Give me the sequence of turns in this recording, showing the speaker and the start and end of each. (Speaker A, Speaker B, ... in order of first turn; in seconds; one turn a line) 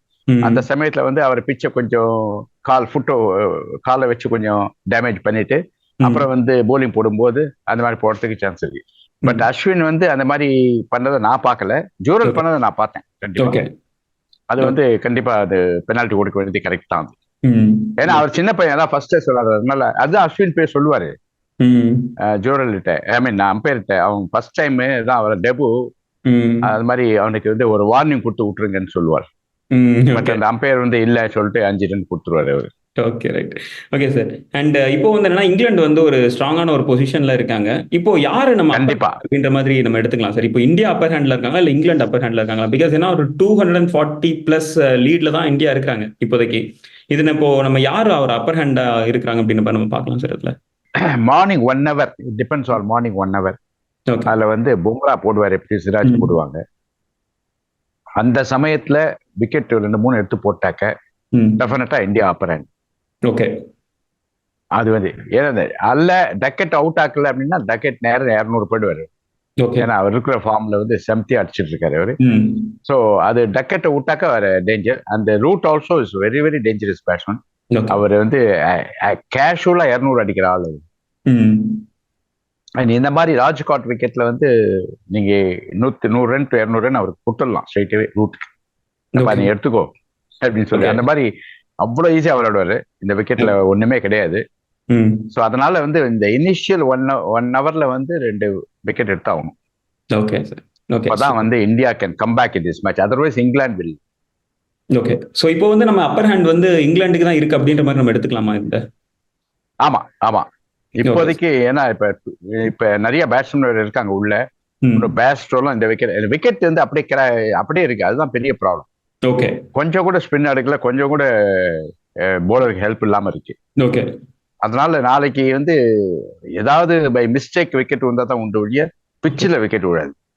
Speaker A: 0.3-0.6
Speaker B: 0.4-13.6
Speaker A: 13.4-13.7
Speaker B: 14.5-17.1
Speaker A: 17.5-18.2
Speaker B: 18.0-21.1
Speaker A: 21.6-22.1
Speaker B: 22.3-25.7
Speaker A: 26.3-26.7
Speaker B: 26.6-29.3
Speaker A: 29.7-30.4
Speaker B: 30.1-32.7
Speaker A: 33.0-50.5
Speaker B: 38.7-39.2
Speaker B: 51.2-53.6
Speaker B: 54.2-56.6
Speaker A: 56.0-56.3
Speaker B: 58.2-60.9
Speaker A: 61.3-61.6
Speaker B: 61.6-62.7
Speaker B: 64.8-69.1
Speaker A: 69.6-69.9
Speaker B: 69.8-72.2
Speaker A: 72.2-72.7
Speaker B: 72.8-80.8
Speaker A: 77.7-78.0
Speaker A: 81.3-81.8
Speaker B: 82.8-84.5
Speaker B: 85.1-88.5
Speaker A: 89.2-89.5
Speaker B: 89.2-89.9
Speaker B: 90.4-91.3
Speaker A: 90.7-91.0
Speaker B: 91.8-94.4
Speaker A: 94.9-95.3
Speaker B: 95.3-99.5
Speaker A: 100.1-101.5
Speaker B: 101.1-104.0
Speaker A: 104.9-108.8
Speaker B: 109.8-114.4
Speaker A: 111.0-111.3
Speaker A: 114.8-115.1
Speaker B: 115.0-118.8
Speaker A: 119.2-119.6
Speaker B: 119.7-123.5
Speaker A: 123.8-124.1
Speaker B: 124.6-130.1